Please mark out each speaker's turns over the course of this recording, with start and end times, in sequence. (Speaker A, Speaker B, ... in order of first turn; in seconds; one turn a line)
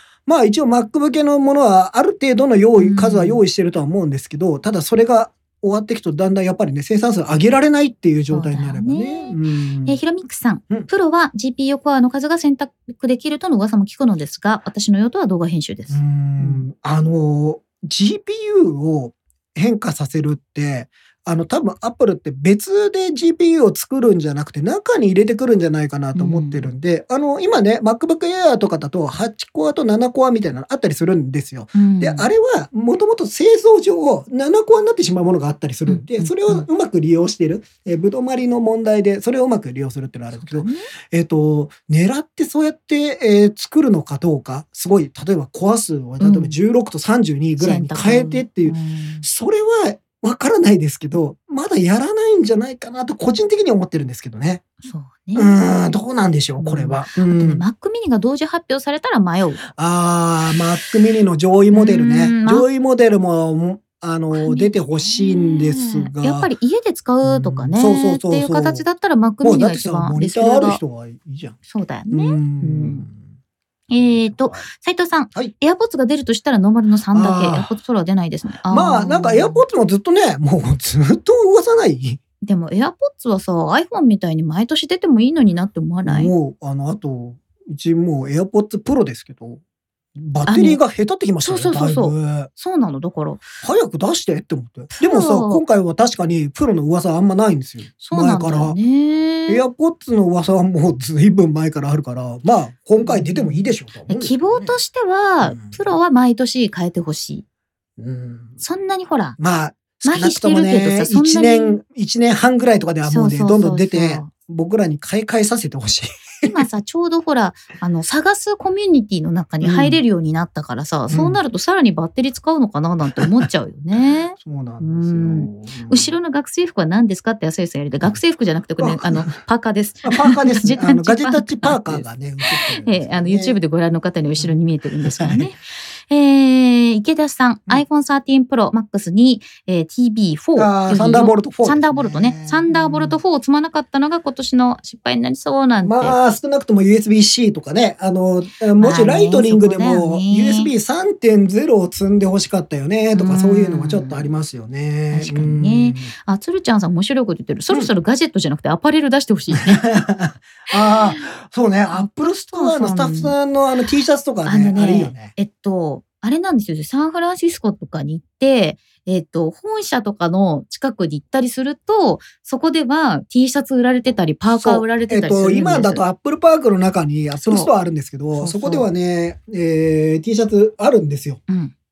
Speaker A: 0.2-10.0
Speaker B: 2.8-3.4
Speaker B: 8.3-16.7
Speaker A: 15.9-54.6
Speaker B: 26.1-26.7
Speaker B: 31.7-32.3
Speaker B: 35.9-36.7
Speaker B: 40.3-40.9
Speaker B: 46.2-46.6
Speaker B: 47.6-49.2
Speaker B: 54.8-55.6
Speaker A: 55.3-57.6
Speaker B: 56.6-59.6
Speaker A: 59.6-66.5
Speaker B: 61.7-62.7
Speaker B: 64.3-70.8
Speaker A: 67.2-68.8
Speaker A: 69.4-71.6
Speaker B: 71.7-73.1
Speaker A: 72.1-73.2
Speaker B: 73.9-79.6
Speaker A: 74.0-74.7
Speaker A: 77.1-77.8
Speaker A: 78.7-82.2
Speaker B: 82.4-86.3
Speaker A: 86.0-89.6
Speaker A: 90.2-92.5
Speaker B: 90.5-90.8
Speaker B: 91.4-93.5
Speaker A: 93.6-98.8
Speaker B: 95.0-95.6
Speaker B: 98.0-99.6
Speaker A: 99.5-104.8
Speaker B: 103.0-107.4
Speaker A: 105.4-105.9
Speaker A: 108.0-108.6
Speaker B: 108.6-109.4
Speaker A: 109.4-116.5
Speaker B: 110.0-111.8
Speaker B: 113.0-114.3
Speaker B: 116.4-146.2
Speaker A: 119.6-120.0
Speaker A: 121.1-121.4
Speaker A: 124.4-126.2
Speaker A: 128.8-129.3
Speaker A: 130.0-133.6
Speaker A: 134.4-135.5
Speaker A: 140.6-143.2
Speaker A: 145.8-156.1
Speaker B: 148.8-150.7
Speaker B: 153.1-154.3
Speaker B: 155.1-159.8
Speaker A: 159.5-165.3
Speaker B: 160.9-161.2
Speaker B: 161.9-163.3
Speaker B: 164.4-176.0
Speaker A: 174.5-181.4
Speaker B: 177.3-177.7
Speaker B: 178.3-178.9
Speaker B: 181.5-181.7